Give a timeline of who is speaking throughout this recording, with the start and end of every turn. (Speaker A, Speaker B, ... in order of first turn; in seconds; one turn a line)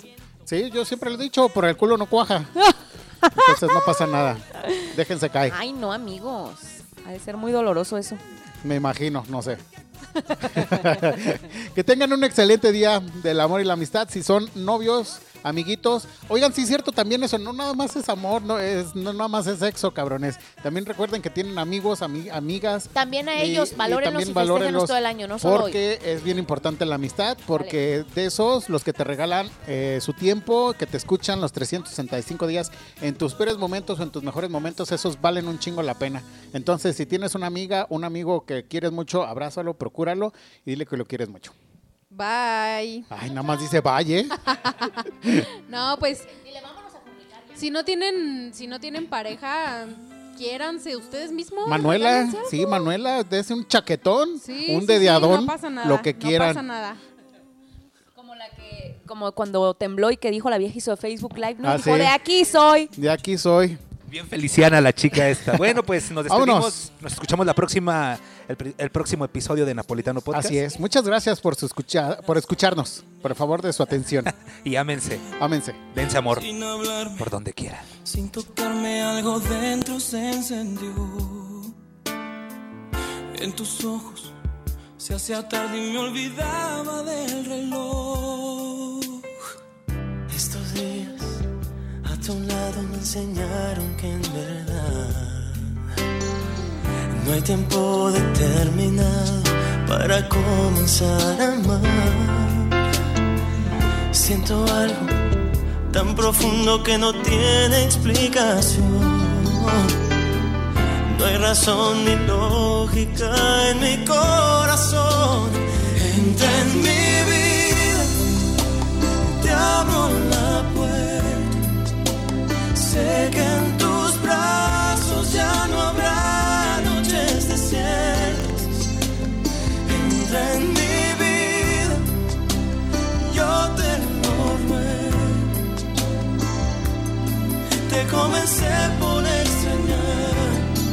Speaker A: 0.5-2.6
Speaker B: 3.2-3.8
Speaker A: 3.3-5.5
Speaker B: 4.6-4.8
Speaker B: 5.5-8.2
Speaker A: 8.6-9.6
Speaker B: 10.2-11.1
Speaker A: 10.5-41.5
Speaker B: 22.9-25.8
Speaker C: 42.1-43.1
Speaker A: 43.1-44.4
Speaker C: 44.5-46.3
Speaker B: 46.5-47.5
Speaker C: 47.5-52.7
Speaker A: 51.6-56.6
Speaker C: 54.4-57.0
Speaker B: 58.2-62.9
Speaker A: 61.6-62.1
Speaker A: 63.0-63.8
Speaker D: 64.1-70.6
Speaker A: 66.2-66.8
Speaker A: 70.3-74.3
Speaker D: 74.2-75.3
Speaker A: 75.4-75.8
Speaker D: 75.9-76.5
Speaker E: 76.3-77.3
Speaker D: 77.2-77.8
Speaker E: 78.0-81.8
Speaker E: 83.3-84.4
Speaker E: 85.0-89.4
Speaker E: 90.3-91.5
Speaker E: 92.0-95.8
Speaker E: 97.1-102.8
Speaker E: 104.1-110.0
Speaker E: 111.1-118.5
Speaker E: 119.2-121.7
Speaker E: 122.7-128.9
Speaker E: 129.8-132.2
Speaker E: 133.2-135.7
Speaker E: 137.8-140.8